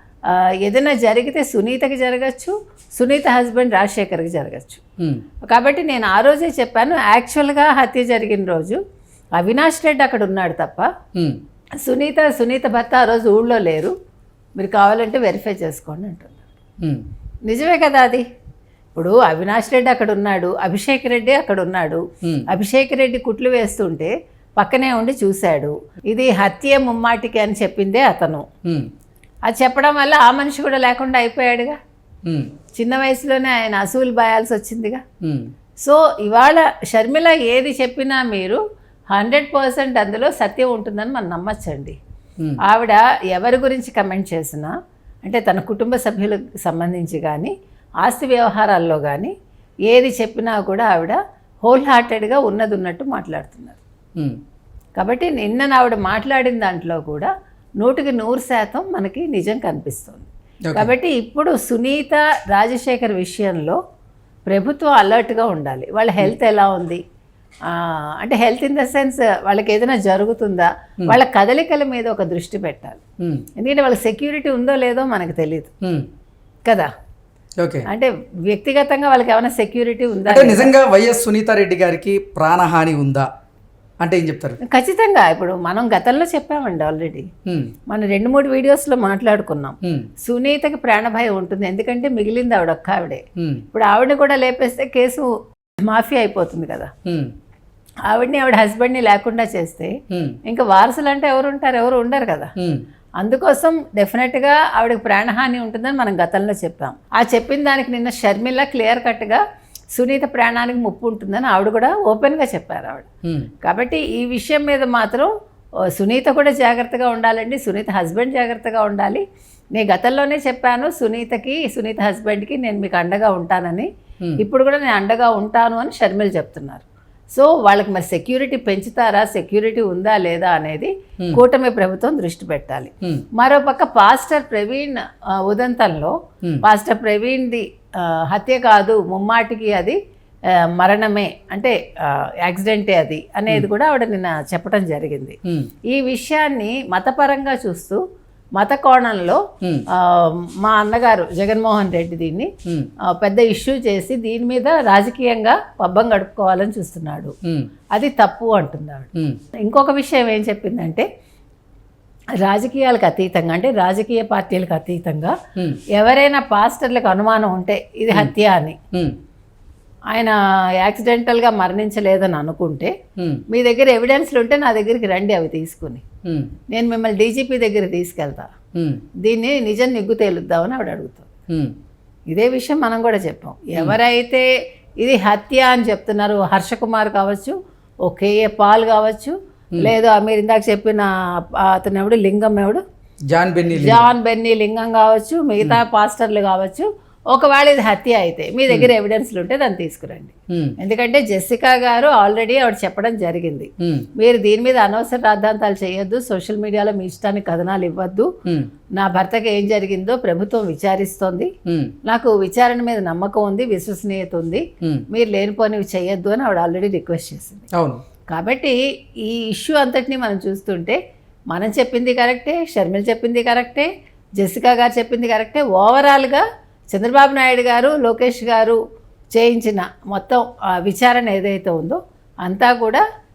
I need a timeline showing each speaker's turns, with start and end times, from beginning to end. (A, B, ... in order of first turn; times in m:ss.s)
0:00.3-0:04.8 A
0:05.5-0:08.8 A
0:09.4-0:10.9 A
0:11.8-0:13.9 A
0:14.6-0:16.4 A
0:17.5-0:18.2 A
0:19.0-0:28.5 A
0:22.2-0:22.5 B
0:29.5-0:31.8 A
0:32.3-0:32.5 B
0:32.8-0:35.0 A
0:35.2-0:35.5 B
0:35.8-0:38.6 A
0:39.1-0:42.0 A
0:42.6-0:44.7 A
0:45.2-0:49.3 A
0:49.9-0:53.8 A
0:55.0-1:03.8 A
1:04.5-1:07.0 A
1:07.7-1:13.0 A
1:13.2-1:13.5 B
1:13.6-1:15.7 A
1:17.6-1:17.9 B
1:17.9-1:20.7 A
1:20.3-1:23.3 B
1:24.0-1:24.6 B
1:24.6-1:27.3 A
1:27.5-1:27.7 B
1:27.9-1:35.3 A
1:33.4-1:33.6 B
1:35.9-1:36.9 A
1:37.1-1:37.3 B
1:38.1-1:40.0 A
1:40.1-1:40.4 B
1:40.5-1:42.5 A
1:43.2-1:49.4 A
1:50.0-1:53.1 A
1:53.2-1:53.5 B
1:53.6-1:55.3 A
1:55.9-1:59.2 A
1:59.8-2:03.9 A
2:04.4-2:20.0 A
2:20.8-2:25.4 A
2:25.9-2:28.0 A
2:28.6-2:29.4 A
2:30.0-2:32.5 A
2:33.1-2:37.4 A
2:38.0-2:39.1 A
2:39.6-2:41.1 A
2:42.4-2:45.4 A
2:45.6-2:45.8 B
2:46.0-2:48.8 A
2:50.1-2:52.9 A
2:53.2-2:53.4 B
2:53.5-2:56.0 A
2:56.3-2:56.5 B
2:56.7-2:58.5 A
2:58.8-2:59.0 B
2:59.2-3:01.3 A
3:02.3-3:04.5 A
3:05.0-3:12.8 A
3:13.3-3:14.1 B
3:13.7-3:28.3 A
3:20.5-3:20.8 B
3:23.8-3:24.1 B
3:29.0-3:31.5 A
3:31.7-3:32.0 B
3:32.0-3:37.7 A
3:37.7-3:38.0 B
3:38.3-3:41.0 A
3:41.5-3:48.8 A
3:49.3-3:53.0 A